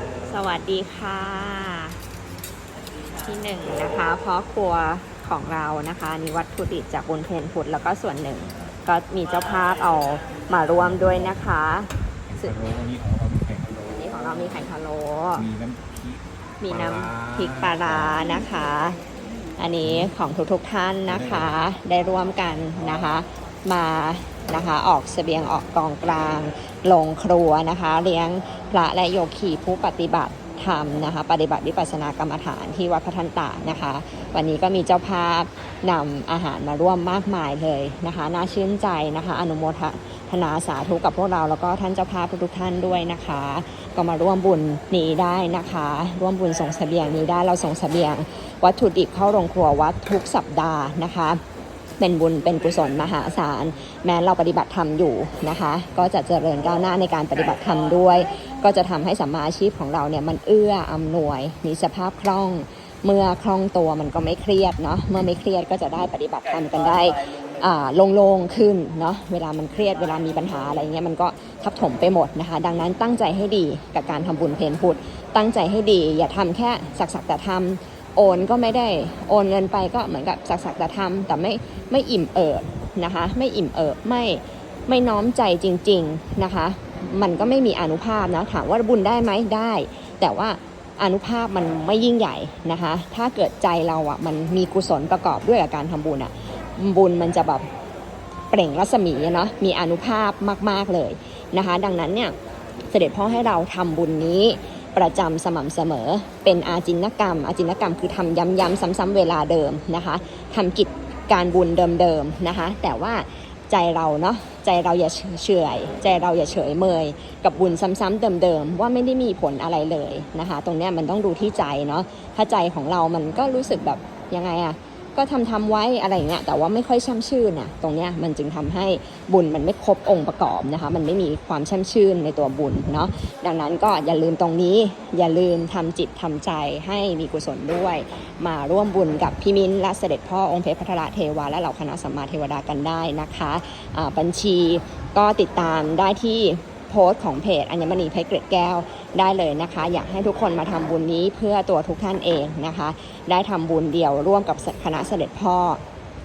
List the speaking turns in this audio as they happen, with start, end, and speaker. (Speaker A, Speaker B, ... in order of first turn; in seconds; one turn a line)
Speaker A: 0.2-2.0
Speaker A: 3.2-12.6
Speaker B: 12.3-13.9
Speaker A: 13.9-15.5
Speaker B: 15.3-16.2
Speaker A: 16.6-19.0
Speaker B: 16.9-17.8
Speaker A: 19.6-51.4
Speaker A: 52.0-97.7
Speaker A: 98.5-102.3
Speaker A: 102.9-155.8